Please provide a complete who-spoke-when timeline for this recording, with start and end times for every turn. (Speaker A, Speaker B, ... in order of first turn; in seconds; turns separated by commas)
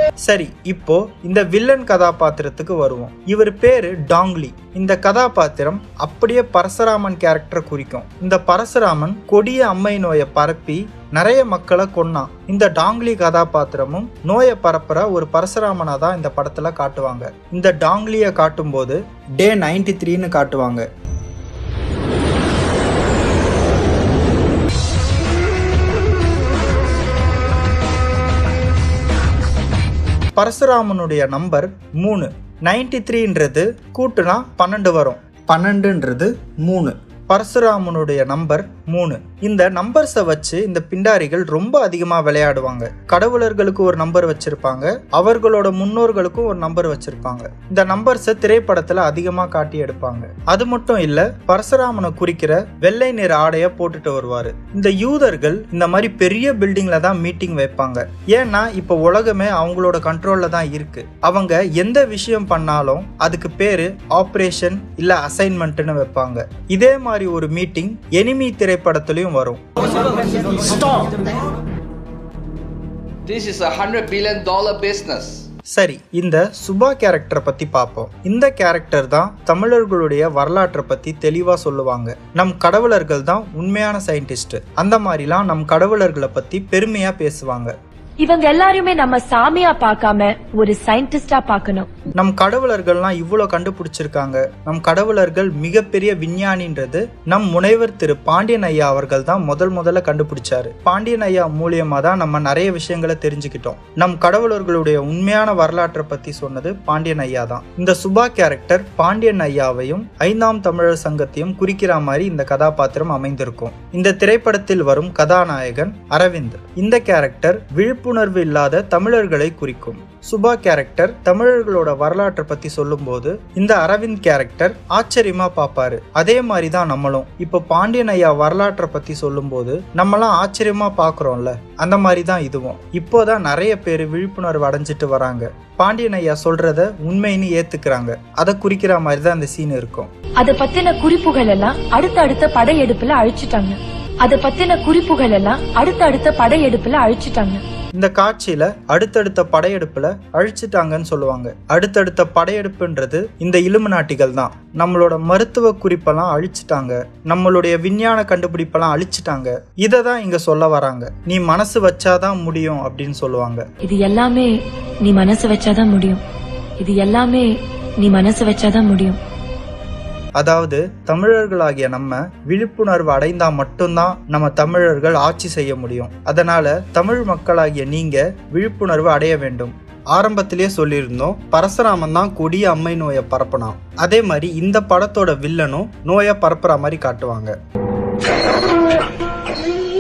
Speaker A: 0.2-20.9, Speaker A: 30.4-69.6, Speaker B: 73.3-75.4, Speaker A: 75.7-87.7, Speaker C: 88.2-91.9, Speaker A: 92.2-140.1, Speaker C: 140.4-147.6, Speaker A: 148.0-163.7, Speaker C: 163.8-164.5, Speaker C: 165.0-166.2, Speaker C: 166.8-167.5, Speaker C: 168.0-169.2, Speaker A: 170.4-187.5